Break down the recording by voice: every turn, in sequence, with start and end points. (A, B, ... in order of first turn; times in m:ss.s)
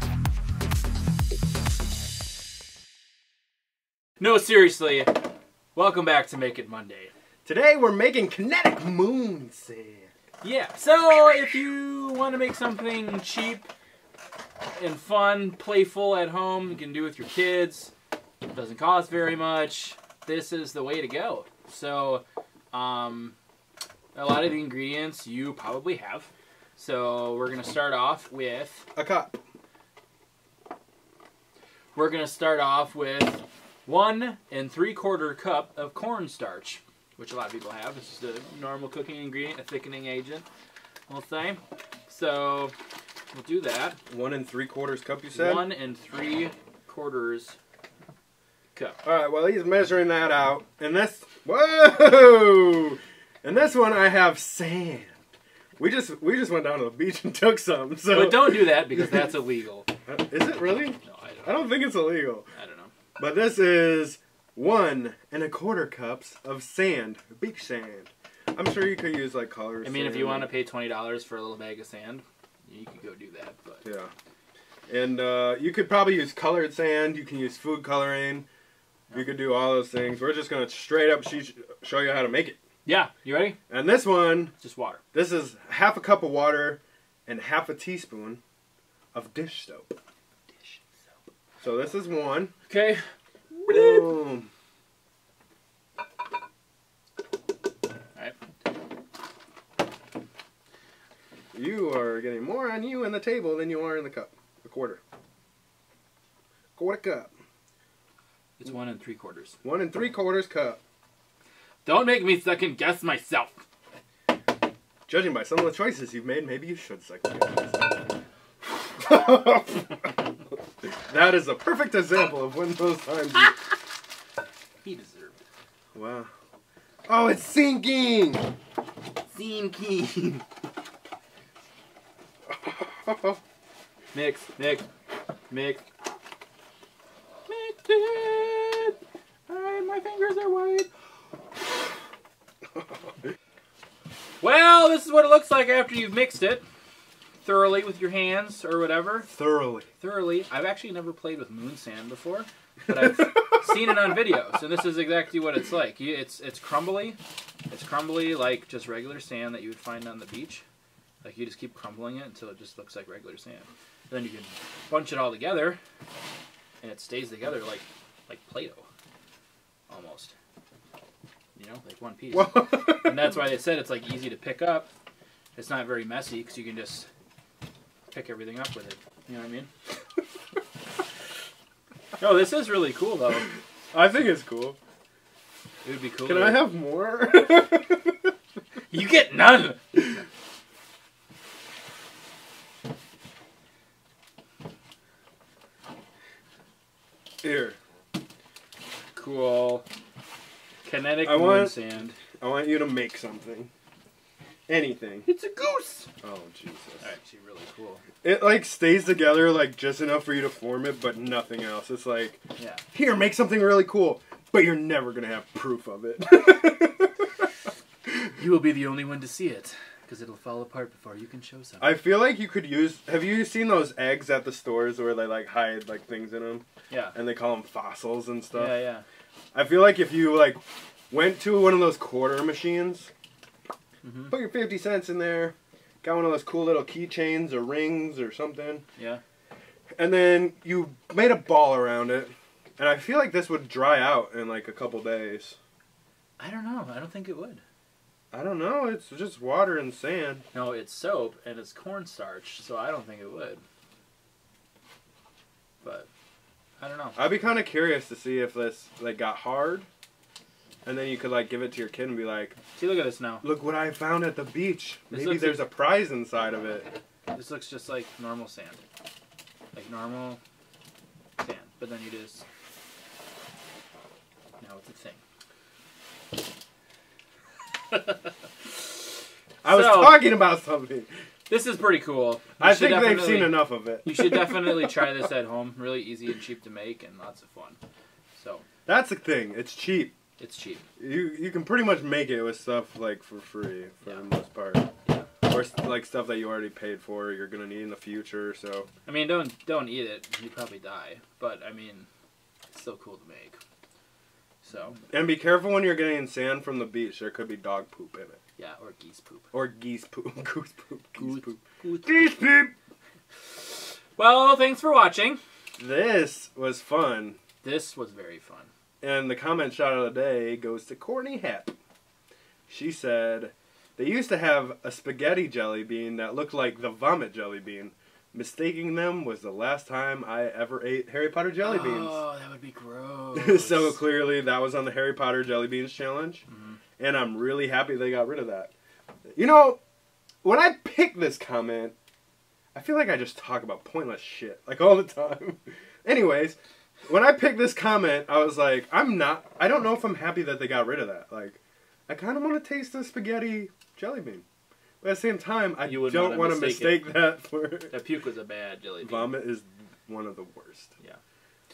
0:04.2-0:07.1 A
0:07.4-0:10.1 B
0:10.4-0:13.7 A
0:14.7-0:17.9 A
0:18.5-0:23.3 A
0:24.1-0:28.9 A
0:28.9-0:29.4 B
0:31.9-0:40.4 A
0:41.1-0:42.7 A
0:43.3-0:44.0 A
0:44.1-0:45.7 B
0:45.3-0:47.6 A
0:49.0-0:55.2 B
0:55.8-0:59.3 B
0:58.1-0:59.9 A
1:00.0-1:02.5 B
1:01.0-1:01.7 A
1:02.5-1:02.9 A
1:03.2-1:10.5 B
1:09.8-1:13.8 A
1:13.8-1:14.1 B
1:14.9-1:18.5 B
1:19.1-1:22.6 B
1:22.8-1:23.6 A
1:23.7-1:24.5 B
1:24.6-1:25.0 A
1:25.1-1:28.4 B
1:29.1-1:30.0 B
1:31.6-1:32.5 B
1:32.6-1:33.0 A
1:33.5-1:34.2 A
1:33.7-1:34.5 B
1:41.5-1:45.0 B
1:46.8-1:47.3 B
1:48.6-1:49.6 A
1:49.6-1:50.8 B
1:51.8-1:53.6 A
1:55.1-1:58.0 B
1:58.7-2:03.6 B
2:04.8-2:05.4 A
2:05.9-2:06.3 B
2:07.1-2:08.5 B
2:09.3-2:10.4 A
2:12.6-2:13.4 B
2:14.1-2:14.9 A
2:15.5-2:15.8 A
2:17.5-2:19.0 A
2:19.5-2:20.9 A
2:24.4-2:26.6 A
2:27.4-2:29.3 A
2:29.3-2:29.9 B
2:30.0-2:40.6 A
2:41.2-2:45.8 A
2:46.8-2:48.8 A
2:49.9-2:50.3 A
2:51.6-2:54.9 A
2:52.3-2:53.4 B
2:55.5-2:57.1 A
2:58.1-2:59.7 A
3:02.2-3:03.5 A
3:03.9-3:04.8 B
3:05.8-3:06.6 A
3:06.2-3:08.2 B
3:08.9-3:10.2 A
3:17.4-3:17.8 B
3:19.1-3:19.8 A
3:20.8-3:22.2 A
3:21.2-3:21.8 B
3:22.4-3:23.7 B
3:24.7-3:25.3 B
3:25.2-3:26.1 A
3:26.2-3:27.0 B
3:27.0-3:28.0 A
3:28.2-3:32.4 B
3:32.6-3:32.8 A
3:32.9-3:37.2 B
3:38.4-3:41.9 A
3:41.8-3:48.8 B
3:46.9-3:47.1 A
3:48.5-3:49.0 A
3:49.5-3:53.1 B
3:54.0-3:54.3 A
3:54.3-3:58.8 B
4:00.0-4:05.6 B
4:06.4-4:07.6 A
4:08.3-4:10.4 B
4:10.5-4:13.6 A
4:15.8-4:16.1 A
4:16.8-4:17.2 A
4:17.2-4:19.9 B
4:20.8-4:22.6 B
4:22.7-4:23.4 A
4:23.4-4:26.9 B
4:25.1-4:25.6 A
4:27.3-4:28.8 A
4:29.7-4:30.4 A
4:31.4-4:32.4 A
4:34.6-4:35.2 A
4:39.6-4:41.1 B
4:39.6-4:40.2 A
4:41.5-4:47.8 A
4:42.6-4:45.1 B
4:48.4-4:48.6 A
4:48.8-4:50.1 B
4:50.4-4:50.8 A
4:51.0-4:54.9 B
4:55.5-4:58.9 B
4:59.0-5:02.1 A
5:02.7-5:03.6 A
5:04.6-5:05.0 A
5:05.1-5:08.4 B
5:08.6-5:09.4 A
5:09.5-5:12.7 B
5:11.2-5:12.4 A
5:14.2-5:15.4 A
5:15.8-5:17.4 B
5:17.6-5:18.7 A
5:19.0-5:21.7 B
5:22.7-5:32.2 B
5:31.6-5:34.0 A
5:33.3-5:36.4 B
5:36.5-5:36.8 A
5:37.0-5:38.7 B
5:39.3-5:39.8 B
5:40.4-5:41.9 B
5:42.7-5:46.6 B
5:47.1-5:54.4 B
5:55.0-5:58.0 B
5:55.8-5:57.1 A
5:57.9-5:59.3 A
5:59.0-6:00.9 B